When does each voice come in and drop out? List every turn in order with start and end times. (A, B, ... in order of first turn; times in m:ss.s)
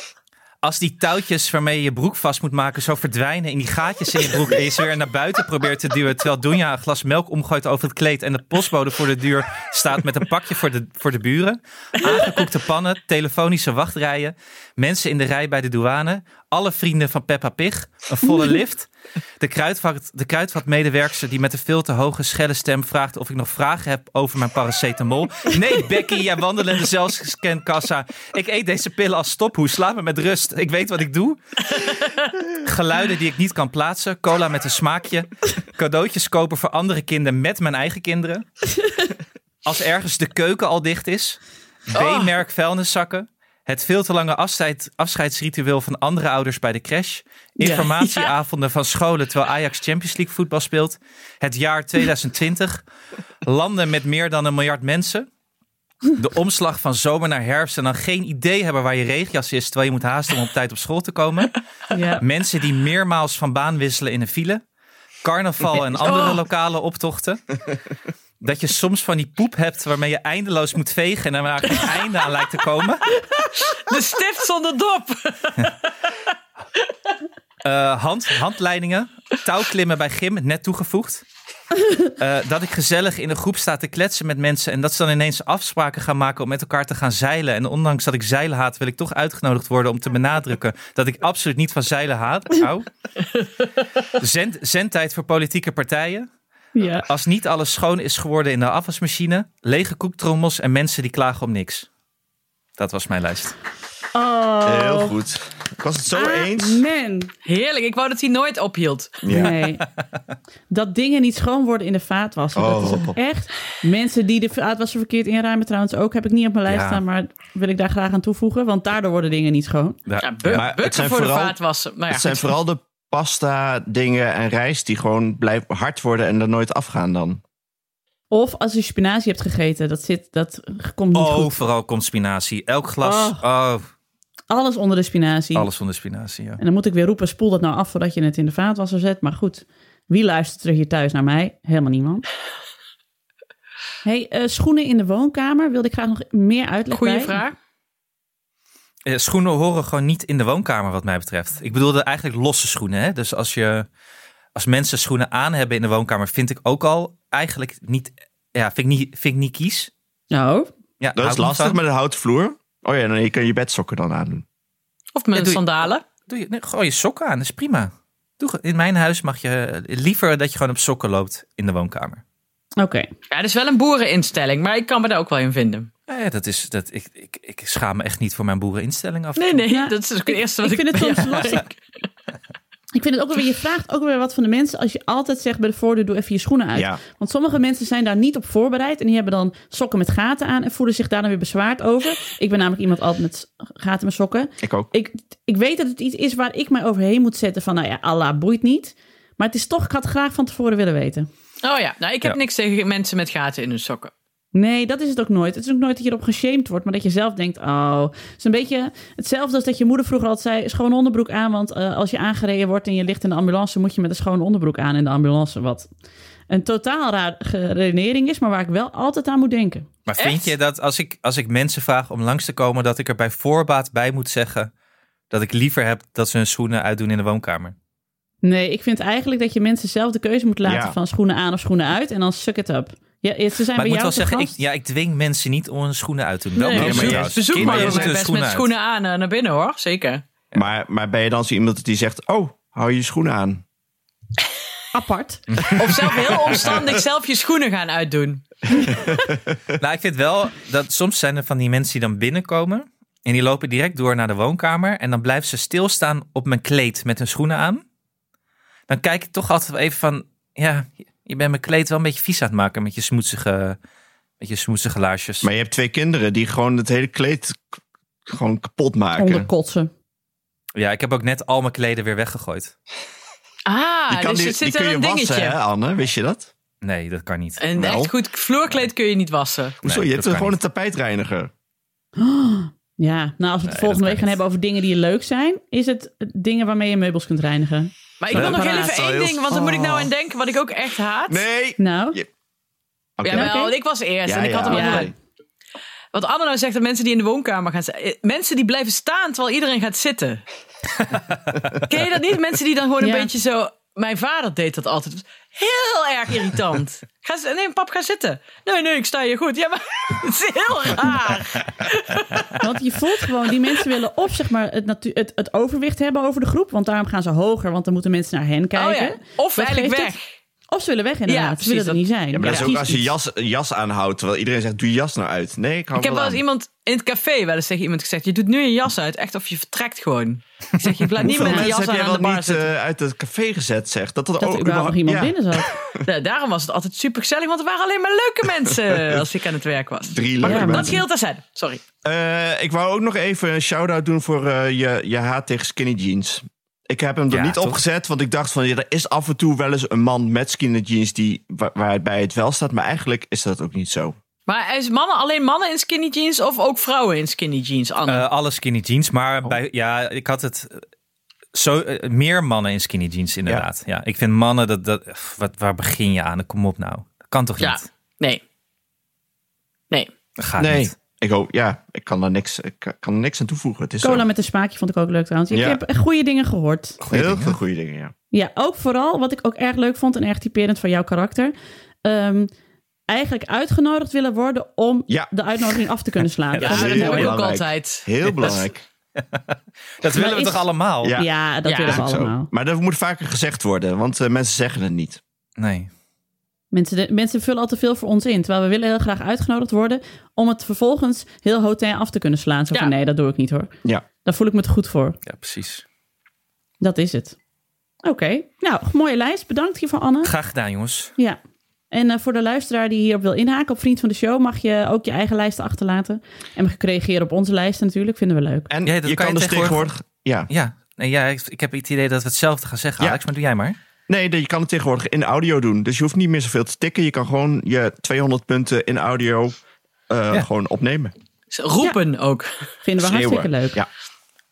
0:00.6-0:38.7 A
0:39.6-0:52.8 A
0:41.9-0:42.3 B
0:47.6-0:47.9 C
0:48.0-0:48.3 B
0:53.4-0:55.3 A
0:56.1-1:01.6 A
1:01.9-1:02.2 C
1:02.2-1:04.6 A
1:05.2-1:07.6 A
1:05.7-1:06.4 B
1:08.4-1:13.2 A
1:13.4-1:15.9 B
1:17.6-1:21.2 A
1:22.1-1:32.9 A
1:34.1-1:36.3 A
1:36.7-1:37.1 C
1:37.1-1:41.9 A
1:42.8-1:43.6 A
1:44.1-1:45.1 C
1:44.6-1:46.8 D
1:46.1-1:47.3 C
1:47.4-1:49.2 B
1:49.2-1:49.5 D
1:49.3-1:49.8 C
1:50.7-2:00.0 C
1:52.6-1:53.2 D
1:56.7-1:57.0 A
2:00.1-2:00.6 A
2:00.2-2:02.5 B
2:00.5-2:01.6 D
2:02.1-2:07.4 D
2:08.3-2:11.6 C
2:11.1-2:13.8 A
2:13.0-2:13.4 C
2:14.5-2:15.7 C
2:15.6-2:16.6 A
2:16.6-2:22.2 C
2:24.0-2:27.4 C
2:26.9-2:27.6 B
2:29.1-2:33.9 A
2:34.6-2:39.9 A
2:40.3-2:40.7 C
2:41.0-2:41.8 A
2:41.1-2:44.4 D
2:45.1-2:46.0 B
2:45.3-2:45.6 A
2:46.2-2:52.2 A
2:52.8-2:53.1 C
2:53.3-2:55.9 B
2:56.1-2:59.6 A
2:59.4-3:01.8 B
2:59.7-3:01.6 C
3:02.9-3:21.3 C
3:06.7-3:07.0 D
3:14.6-3:14.9 D
3:21.6-3:24.1 B
3:24.5-3:35.9 C
3:36.5-3:39.9 C
3:40.1-3:44.7 A
3:40.2-3:40.5 B
3:45.3-3:47.7 A
3:48.4-3:54.6 C
3:50.6-3:51.0 D
3:53.8-3:58.7 A
3:56.6-4:00.2 B
3:56.7-3:58.2 D
4:00.5-4:03.6 D
4:04.9-4:05.4 C
4:05.7-4:08.6 B
4:08.8-4:09.1 C
4:08.9-4:09.5 D
4:09.8-4:17.8 A
4:18.9-4:23.8 A
4:24.4-4:25.5 A
4:25.4-4:29.5 D
4:29.2-4:29.9 C
4:30.7-4:32.7 A
4:33.6-4:35.6 B
4:34.1-4:36.5 D
4:36.8-4:37.6 A
4:37.6-4:39.8 B
4:37.8-4:38.1 D
4:39.8-4:41.5 D
4:39.8-4:40.5 A
4:42.2-4:49.0 C
4:43.6-4:44.4 A
4:48.2-4:51.4 B
4:48.3-4:50.1 D
4:51.3-4:52.3 D
4:51.8-4:52.2 C
4:53.2-4:53.5 D
4:53.2-4:55.1 B
4:53.3-4:53.7 C
4:54.2-4:55.1 D
4:54.7-4:55.1 C
4:56.1-5:00.4 B
5:01.0-5:01.6 A
5:01.9-5:12.6 B
5:03.0-5:03.3 C
5:12.6-5:20.2 C
5:18.8-5:20.2 B
5:20.7-5:23.1 C
5:21.3-5:22.8 B
5:22.3-5:26.4 D
5:26.0-5:32.7 B
5:31.2-5:36.0 D
5:31.4-5:31.7 C
5:34.4-5:35.7 C
5:36.0-5:41.8 B
5:40.1-5:41.0 D
5:40.4-5:41.0 C
5:42.0-5:54.2 D
5:47.3-5:47.8 A
5:54.5-5:58.2 B
5:58.1-6:00.8 A
6:01.5-6:07.9 A
6:07.6-6:08.4 B
6:10.4-6:10.9 A
6:10.6-6:14.2 D
6:14.0-6:17.0 C
6:15.5-6:15.8 D
6:17.0-6:17.6 A
6:17.1-6:18.1 D
6:18.3-6:21.5 C
6:22.0-6:22.5 C
6:23.1-6:27.3 C
6:26.6-6:27.0 A
6:26.6-6:28.1 B
6:26.6-6:28.8 D
6:28.3-6:28.6 A
6:29.2-6:31.2 A
6:30.1-6:32.5 C
6:31.0-6:31.3 D
6:31.6-6:32.0 B
6:31.8-6:35.2 D
6:35.6-6:35.9 A
6:36.7-6:43.7 C
6:44.2-6:45.2 C
6:45.2-6:45.8 A
6:46.8-6:47.4 C
6:48.0-6:50.3 C
6:50.2-6:51.1 A
6:51.9-6:58.7 C
6:58.7-7:00.5 D
6:58.9-6:59.9 A
7:00.5-7:03.8 A
7:04.1-7:09.6 D
7:10.1-7:11.1 D
7:11.5-7:12.5 B
7:12.8-7:13.8 C
7:13.0-7:13.9 D